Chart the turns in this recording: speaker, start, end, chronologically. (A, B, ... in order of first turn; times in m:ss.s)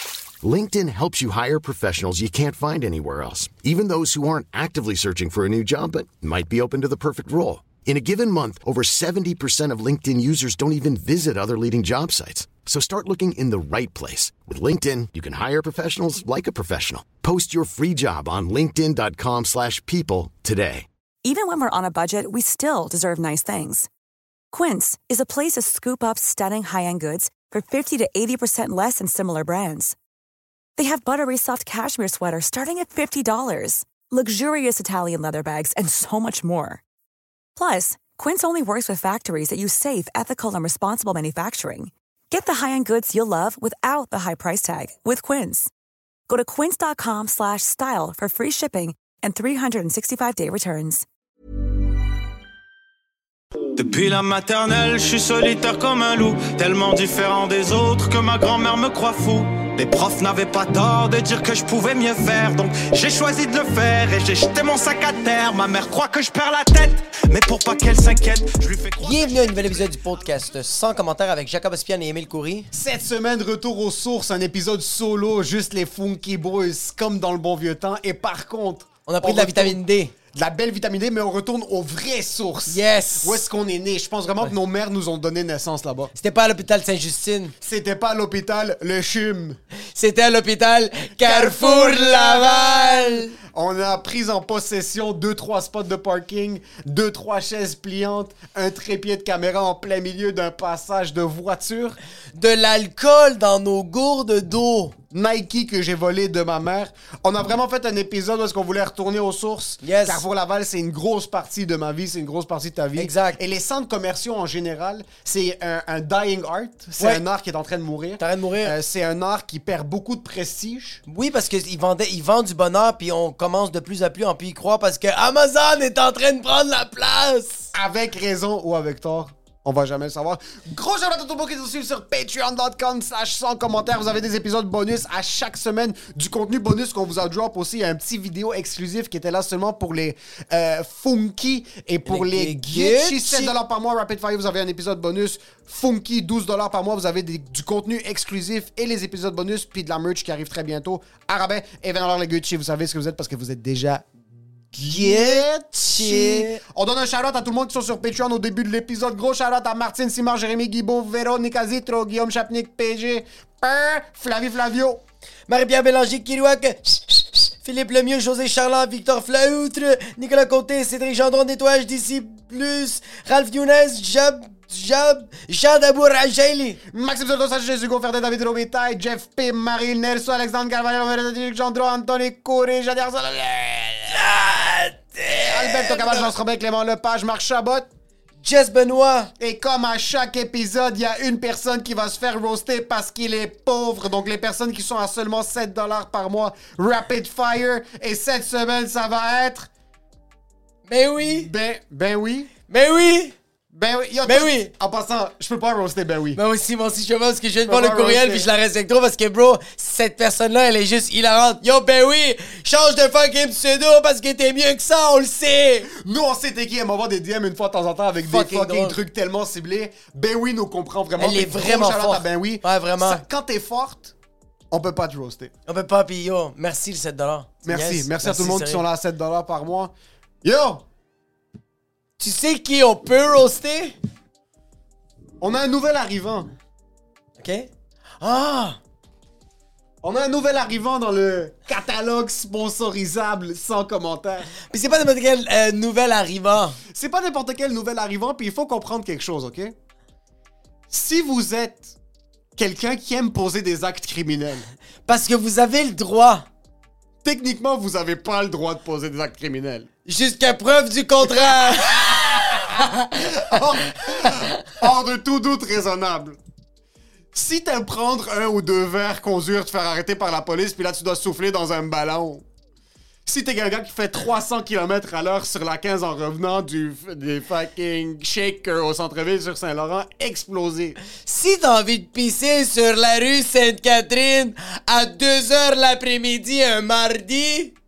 0:00.4-0:20.9 A
0:21.2-0:23.9 B
0:24.5-0:30.0 B
0:30.8-0:36.8 B
0:37.5-0:45.7 B
0:46.3-0:51.0 B
0:53.8-1:09.5 C
1:09.0-1:12.7 D
1:12.7-1:19.8 E
1:19.0-1:20.1 D
1:20.3-1:26.1 E
1:22.7-1:23.4 D
1:26.2-1:27.5 D
1:27.6-1:29.6 E
1:29.9-1:33.3 D
1:31.2-1:42.0 E
1:42.3-1:45.0 D
1:45.1-2:01.0 E
1:49.8-1:50.2 D
1:53.0-1:53.4 D
1:58.2-1:58.7 D
2:01.1-2:07.7 D
2:07.7-2:34.1 E
2:22.0-2:23.5 D
2:34.7-2:45.0 E
2:34.9-2:36.6 D
2:45.5-2:56.8 D
2:56.9-3:04.2 E
3:04.1-3:06.3 D
3:05.3-3:07.9 E
3:08.4-3:09.3 D
3:09.4-3:19.7 E
3:20.9-3:21.5 D
3:21.2-3:22.5 E
3:22.7-3:23.4 D
3:23.7-3:26.4 E
3:24.2-3:24.7 D
3:26.4-3:35.9 D
3:27.6-3:28.5 E
3:35.9-3:44.1 E
3:38.2-3:39.0 D
3:41.2-3:43.2 D
3:44.7-3:45.5 E
3:45.6-3:48.8 D
3:47.6-3:49.9 E
3:50.4-3:50.8 E
3:52.2-3:53.9 D
3:55.4-3:56.5 E
3:57.4-3:57.7 D
3:58.2-3:58.8 D
4:00.0-4:04.5 E
4:04.6-4:06.8 D
4:06.9-4:09.7 E
4:10.9-4:11.9 E
4:12.6-4:14.7 E
4:15.1-4:16.4 D
4:17.2-4:19.9 E
4:20.0-4:23.2 D
4:21.7-4:26.4 E
4:24.0-4:24.7 D
4:27.3-4:32.4 E
4:33.2-4:41.0 E
4:41.1-4:47.7 D